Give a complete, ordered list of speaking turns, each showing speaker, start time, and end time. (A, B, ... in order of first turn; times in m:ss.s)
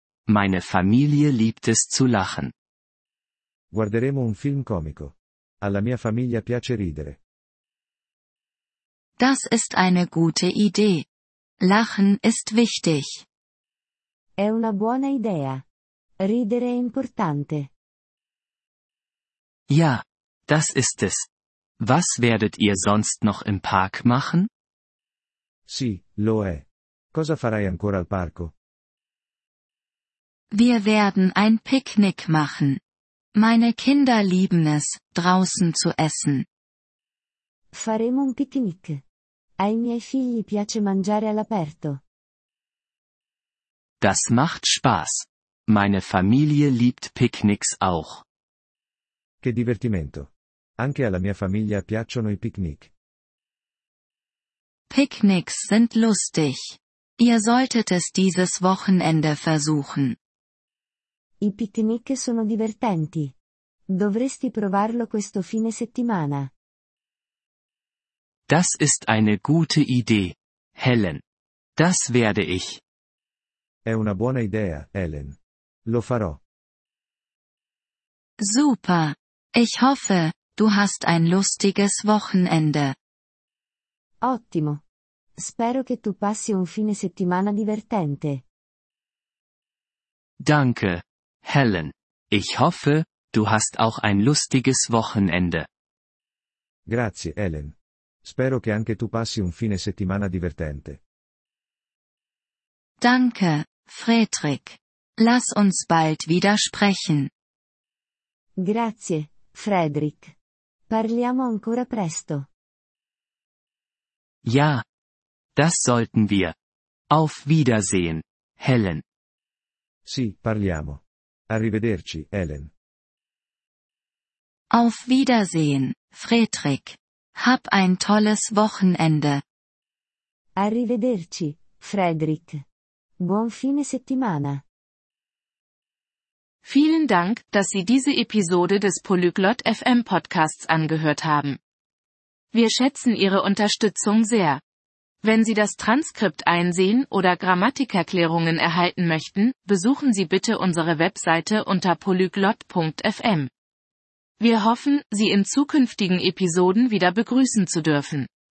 0:00.3-0:02.5 A
0:03.7-0:07.2 B
0:09.2-0:11.1 C
0:11.6-0:13.2 C
0:14.4-0:15.6 D
0:16.2-0:17.7 D
0:19.7-0:21.3 A
0:21.8-0:24.5 A
0:25.7-0:28.5 B
0:30.5-0:32.8 C
0:33.4-0:36.5 C
0:37.7-0:39.0 D
0:39.6-0:42.0 D
0:44.0-0:48.2 A
0:49.4-0:52.9 B
0:54.9-1:00.2 C
1:01.4-1:03.3 D
1:03.9-1:06.5 D
1:08.5-1:11.2 A
1:11.8-1:12.8 A
1:13.9-1:16.4 B
1:18.4-1:23.0 C
1:24.2-1:24.8 D
1:25.4-1:28.4 D
1:30.4-1:35.7 A
1:36.9-1:41.0 B
1:43.0-1:47.3 C
1:48.6-1:50.3 D
1:50.9-1:52.5 D
1:54.4-1:54.8 A
1:55.6-1:56.6 A
1:57.1-1:59.0 A
2:00.1-2:02.7 B
2:04.7-2:09.4 C
2:10.6-2:12.6 D
2:13.2-2:14.6 D
2:16.6-2:21.6 E
2:22.5-2:24.6 E
2:25.2-2:33.5 E
2:34.4-2:38.3 E